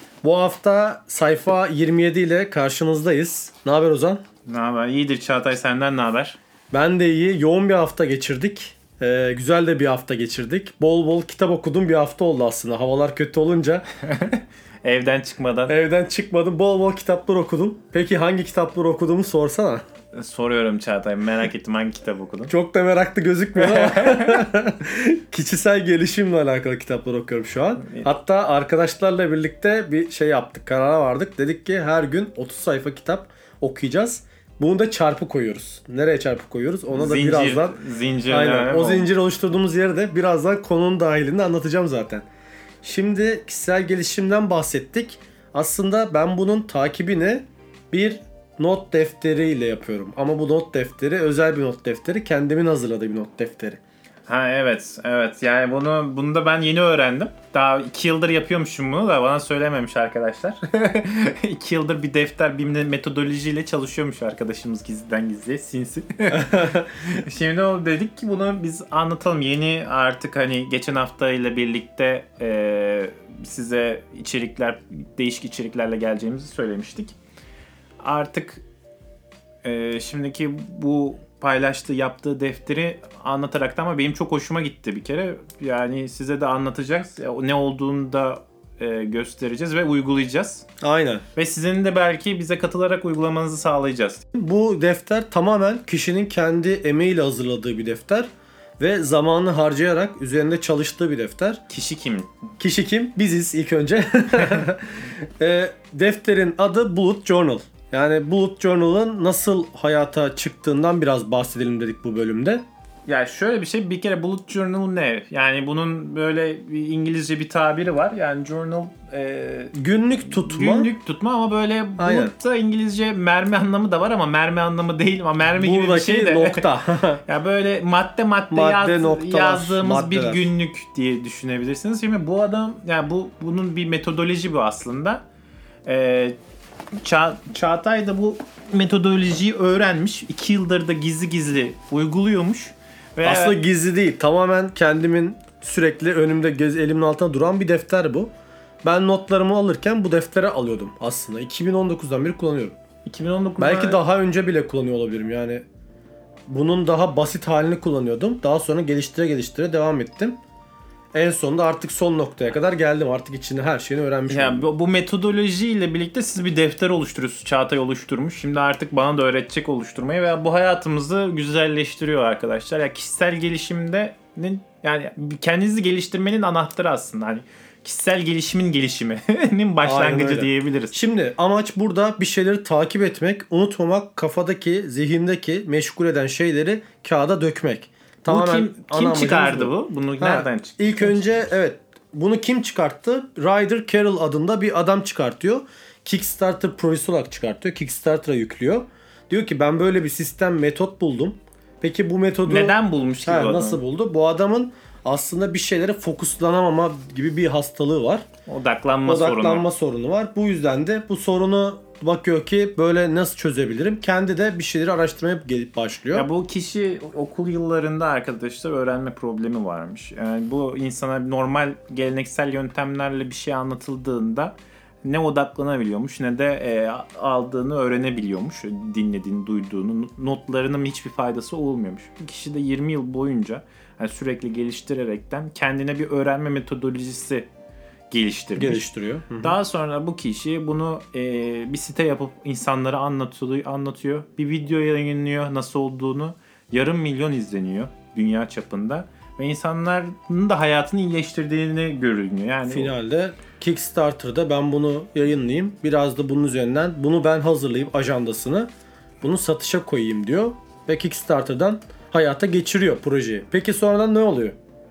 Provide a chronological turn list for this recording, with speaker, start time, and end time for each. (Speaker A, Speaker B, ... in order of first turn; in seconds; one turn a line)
Speaker A: 0.2-4.2
Speaker B: 4.5-6.4
Speaker A: 6.7-13.8
Speaker B: 14.0-15.8
Speaker A: 15.7-19.8
Speaker B: 20.1-22.5
Speaker A: 22.5-42.2
Speaker B: 23.6-24.4
Speaker B: 27.8-28.1
Speaker B: 36.9-39.1
Speaker A: 42.8-53.8
Speaker B: 54.3-77.2
Speaker A: 66.4-66.8
Speaker B: 78.0-78.6
Speaker B: 79.6-90.6
Speaker A: 90.8-91.2
Speaker B: 91.3-94.2
Speaker A: 94.3-101.6
Speaker B: 101.7-102.3
Speaker A: 102.6-112.6
Speaker B: 113.0-119.7
Speaker A: 119.7-120.9
Speaker B: 120.2-126.7
Speaker A: 122.0-122.3
Speaker A: 125.5-127.2
Speaker B: 127.2-135.2
Speaker A: 128.5-130.5
Speaker B: 135.8-136.3
Speaker B: 137.0-143.6
Speaker A: 143.2-148.3
Speaker A: 148.8-152.8
Speaker B: 153.0-154.0
Speaker A: 153.6-155.6
Speaker A: 156.5-160.4
Speaker A: 161.1-164.7
Speaker B: 164.3-181.0
Speaker A: 179.8-208.2
Speaker B: 188.3-191.2
Speaker B: 202.4-203.8
Speaker B: 208.4-209.6
Speaker A: 209.1-216.3
Speaker B: 216.1-237.5
Speaker B: 238.1-238.8
Speaker A: 238.6-239.6
Speaker B: 239.4-252.9
Speaker A: 252.7-258.7
Speaker A: 259.2-264.6